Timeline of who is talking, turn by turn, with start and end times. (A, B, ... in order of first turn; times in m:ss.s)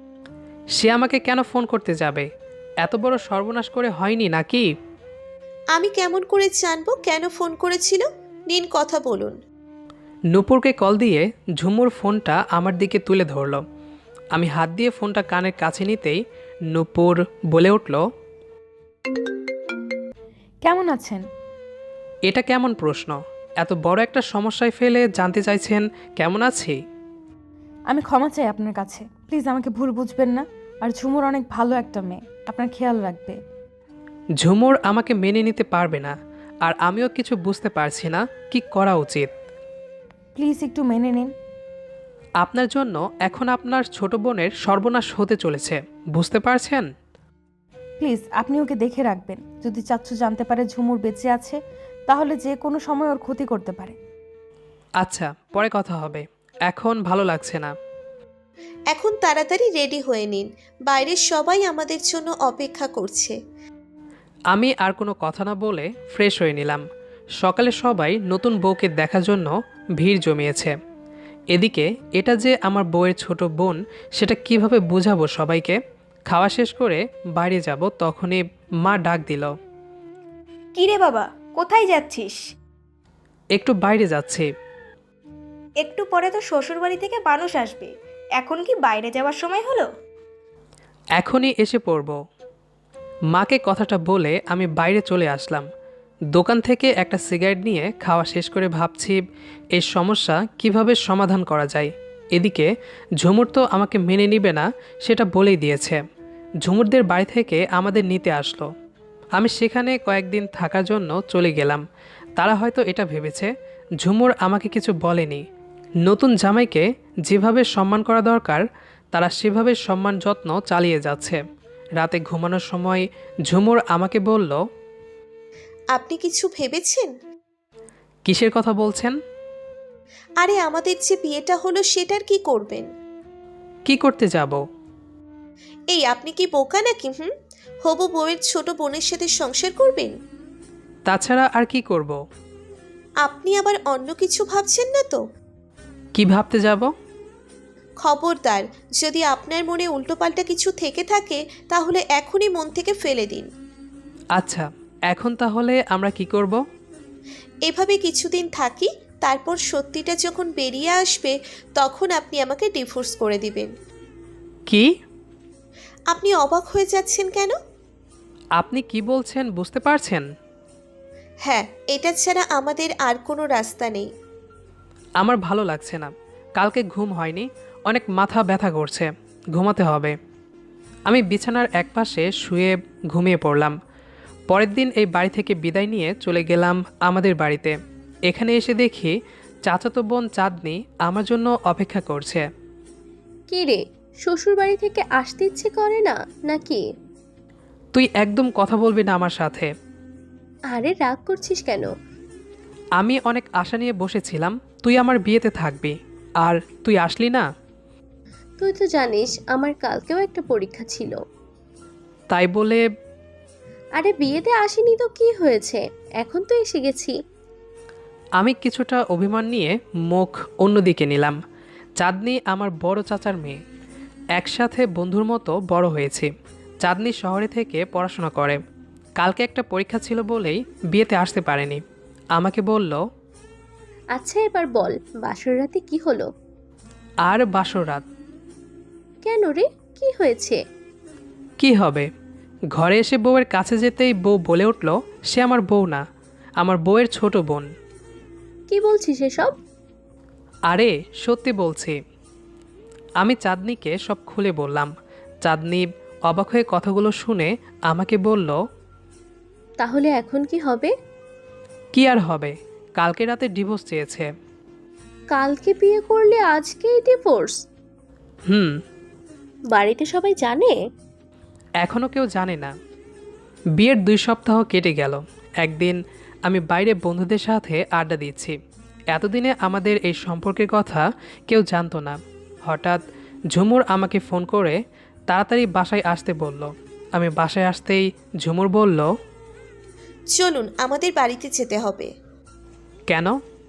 0:00.8-0:02.3 A
0:02.8-0:04.7 A
0:05.8-0:09.4 B
0:10.3-0:13.6 A
0:14.3-0:16.2 A
0:16.7-0:18.0 A
0:20.6-0:21.2 C
0:22.3-0:26.8 A
0:27.9-0:33.4 C
0:34.4-0:39.3 A
0:40.4-0:41.3 C
0:42.4-0:46.9 A
0:48.0-0:54.0 C
0:55.0-0:57.7 A
0:58.9-1:03.4 B
1:04.5-1:06.8 A
1:07.4-1:10.7 A
1:11.5-1:19.5 A
1:20.8-1:22.4 D
1:23.6-1:24.5 A
1:25.8-1:29.9 D
1:31.2-1:32.2 A
1:33.3-1:35.7 A
1:36.3-1:39.2 A
1:39.8-1:46.0 A
1:46.6-1:48.7 A
1:49.4-1:51.8 A
1:52.4-1:55.4 A
1:56.0-2:01.4 A
2:02.0-2:04.6 A
2:06.0-2:07.1 B
2:08.3-2:09.2 A
2:10.4-2:12.9 B
2:13.9-2:14.6 A
2:15.9-2:17.3 B
2:17.9-2:20.2 B
2:21.1-2:22.2 A
2:23.2-2:25.2 B
2:26.2-2:26.9 A
2:28.0-2:33.5 B
2:34.4-2:36.6 A
2:37.7-2:43.7 B
2:46.1-2:47.6 B
2:48.6-2:50.2 A
2:51.5-2:54.1 B
2:55.2-3:00.2 A
3:01.1-3:03.7 A
3:04.5-3:07.8 A
3:08.3-3:09.1 A
3:09.7-3:12.5 A
3:13.5-3:16.8 E
3:17.9-3:19.7 A
3:20.7-3:21.9 E
3:23.0-3:27.5 A
3:28.6-3:31.2 E
3:32.3-3:32.8 A
3:34.0-3:37.2 E
3:38.4-3:41.4 A
3:42.0-3:43.6 A
3:44.4-3:46.3 A
3:46.8-3:48.6 A
3:49.2-3:51.8 A
3:52.4-3:53.0 A
3:54.1-3:56.3 E
3:57.2-3:58.0 A
3:59.2-4:00.6 E
4:01.6-4:02.1 A
4:02.8-4:06.0 A
4:06.6-4:07.7 A
4:08.7-4:09.5 E
4:10.7-4:12.0 A
4:13.2-4:14.9 A
4:15.4-4:18.6 A
4:19.8-4:20.9 E
4:21.9-4:24.3 A
4:25.3-4:27.6 E
4:29.7-4:30.8 E
4:31.8-4:32.7 A
4:33.8-4:38.6 A
4:39.1-4:43.0 A
4:43.5-4:44.8 A
4:45.3-4:49.1 A
4:50.4-4:52.1 B
4:53.1-4:53.4 A